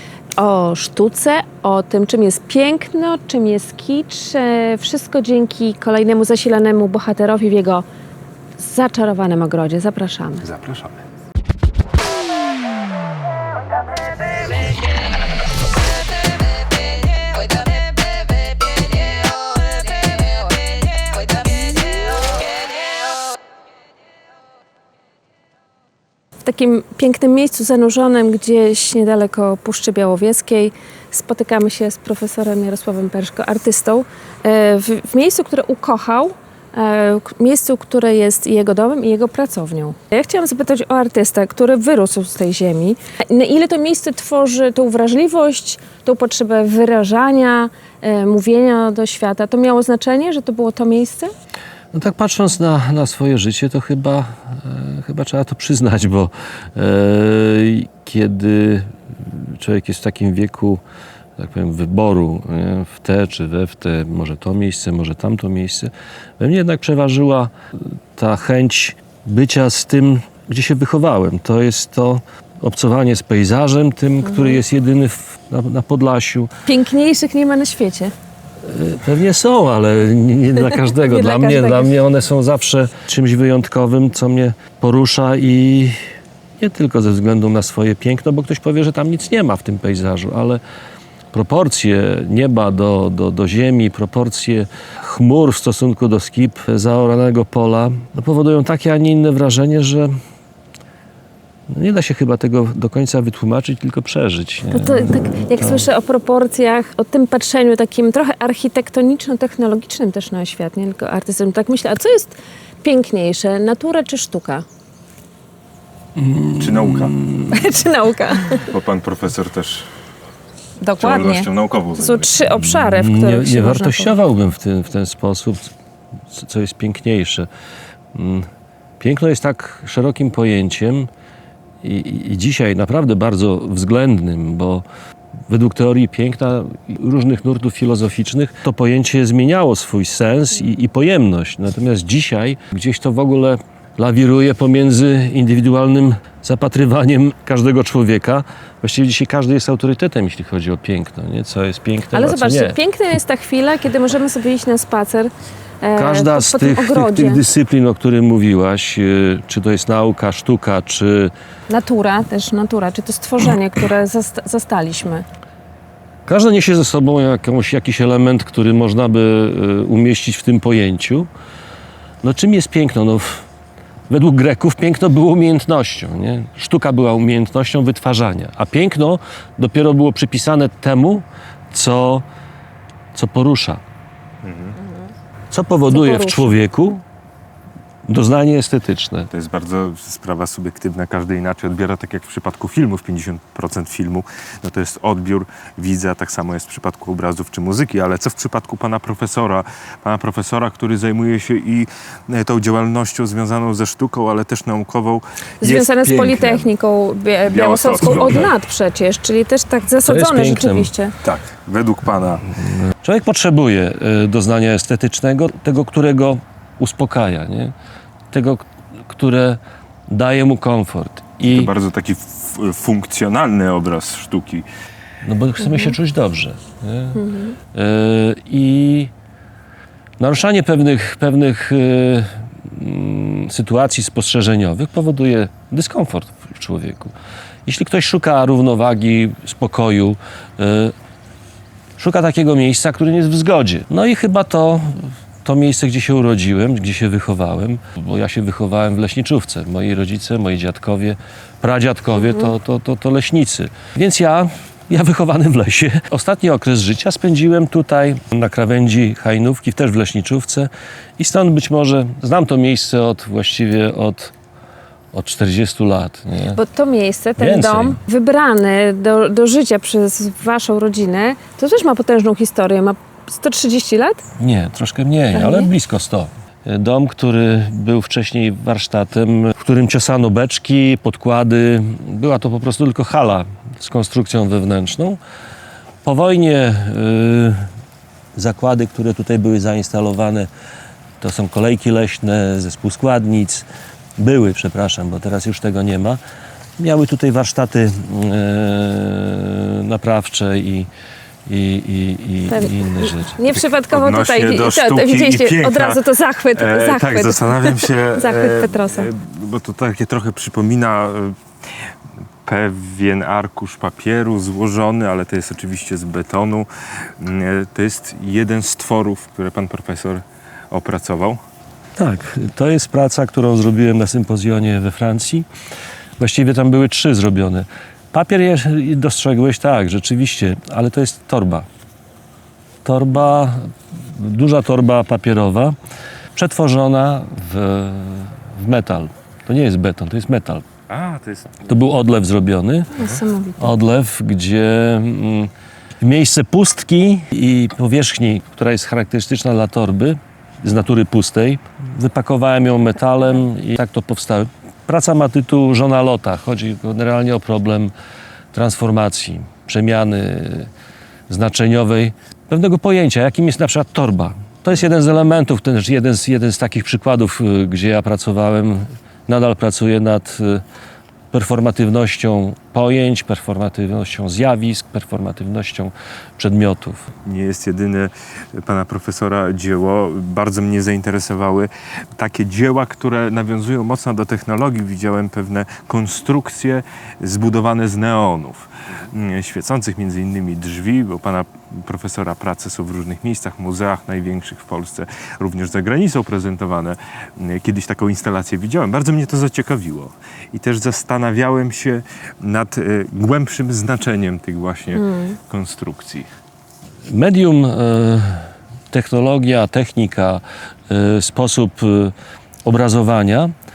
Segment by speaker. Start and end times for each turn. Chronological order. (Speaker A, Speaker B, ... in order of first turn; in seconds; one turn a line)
Speaker A: 0.4-7.8
Speaker A: 8.6-10.4
Speaker B: 10.4-11.0
Speaker A: 26.4-51.3
Speaker C: 51.9-60.8
Speaker C: 61.4-76.5
Speaker A: 74.2-74.6
Speaker A: 76.7-78.1
Speaker C: 78.6-86.0
Speaker A: 80.6-82.0
Speaker C: 86.6-90.6
Speaker C: 91.3-100.1
Speaker C: 101.7-105.8
Speaker A: 104.7-114.6
Speaker C: 116.2-117.5
Speaker B: 116.5-117.2
Speaker A: 117.5-118.7
Speaker B: 118.6-119.9
Speaker A: 120.8-124.2
Speaker B: 121.0-122.3
Speaker C: 122.5-125.7
Speaker C: 126.3-127.5
Speaker C: 128.1-128.5
Speaker C: 129.0-131.1
Speaker C: 131.8-134.8
Speaker C: 135.5-152.8
Speaker A: 152.1-157.4
Speaker C: 155.9-161.3
Speaker A: 161.7-165.2
Speaker C: 166.3-171.3
Speaker C: 172.2-173.4
Speaker C: 174.1-182.2
Speaker C: 183.1-183.8
Speaker B: 184.4-184.8
Speaker C: 185.5-187.0
Speaker A: 185.9-186.6
Speaker C: 188.1-189.3
Speaker B: 189.3-206.7
Speaker A: 205.6-211.1
Speaker B: 207.5-208.5
Speaker C: 210.0-210.9
Speaker B: 211.2-212.5
Speaker C: 213.0-217.7
Speaker C: 218.3-221.7
Speaker B: 221.4-224.7
Speaker C: 225.2-227.2
Speaker A: 225.7-225.9
Speaker A: 227.1-227.6
Speaker C: 227.7-229.1
Speaker C: 230.2-237.1
Speaker C: 237.7-240.9
Speaker C: 242.0-264.3
Speaker C: 265.1-266.6
Speaker A: 266.5-274.2
Speaker C: 267.4-268.0
Speaker C: 274.4-285.2
Speaker A: 275.3-275.7
Speaker C: 286.0-287.7
Speaker C: 288.3-290.5
Speaker C: 291.2-293.6
Speaker C: 294.2-296.2
Speaker C: 296.8-300.9
Speaker C: 301.5-303.4
Speaker A: 302.5-309.1
Speaker B: 303.5-306.0
Speaker B: 306.5-311.4
Speaker B: 312.4-321.4
Speaker C: 322.0-325.5
Speaker C: 326.2-331.7
Speaker C: 332.8-335.8
Speaker C: 336.3-340.6
Speaker B: 340.9-341.8
Speaker C: 341.7-357.9
Speaker A: 342.9-343.8
Speaker C: 358.5-360.7
Speaker C: 361.3-370.6
Speaker C: 371.3-377.1
Speaker B: 377.2-406.3
Speaker A: 405.0-405.3
Speaker C: 407.1-412.1
Speaker C: 412.6-413.5